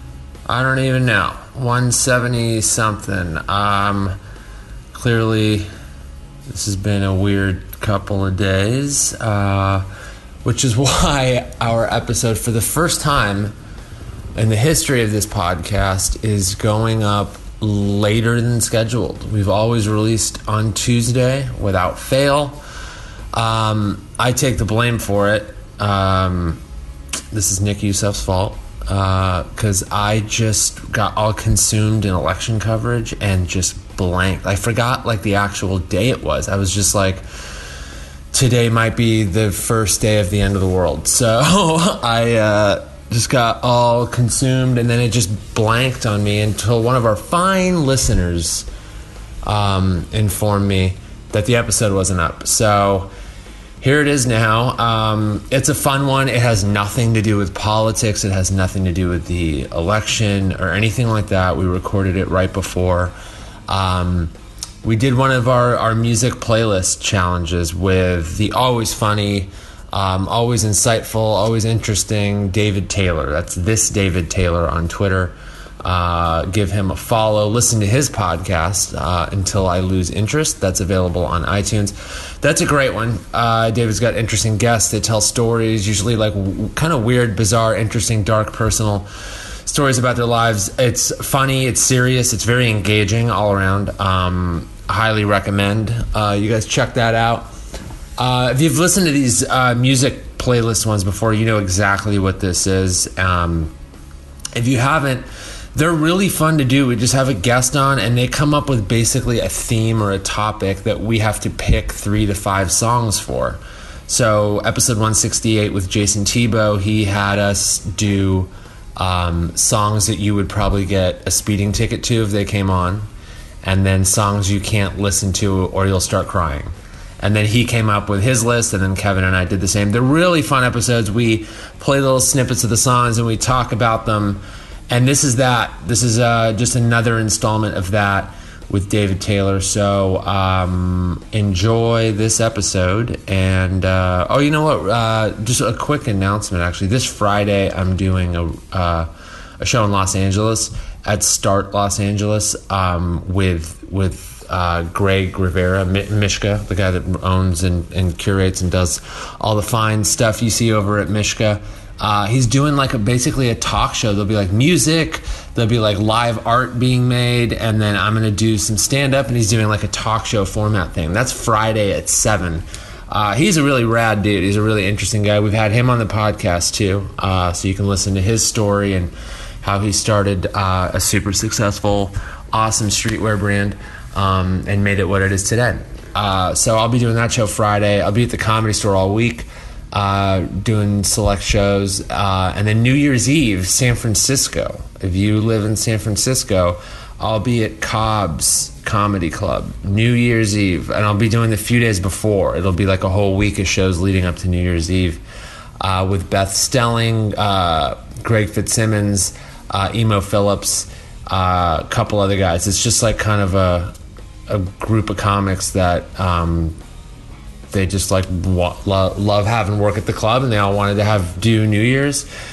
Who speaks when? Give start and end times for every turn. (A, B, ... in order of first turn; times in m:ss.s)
0:00.4-0:04.2 A
0:04.9-0:05.7 A
0:06.5-0:09.9 A
0:10.4-0:13.5 A
0:14.3-0:22.6 A
0:23.3-0:26.6 A
0:27.3-0:37.2 A
0:38.3-0:48.7 A
0:49.4-0:53.1 A
0:53.8-1:03.2 A
1:03.7-1:29.1 A
1:29.6-1:37.5 A
1:38.2-1:43.7 A
1:44.5-2:03.1 A
2:03.6-3:25.2 A
3:25.8-3:34.0 A
3:34.5-3:36.8 A
3:37.7-3:42.3 A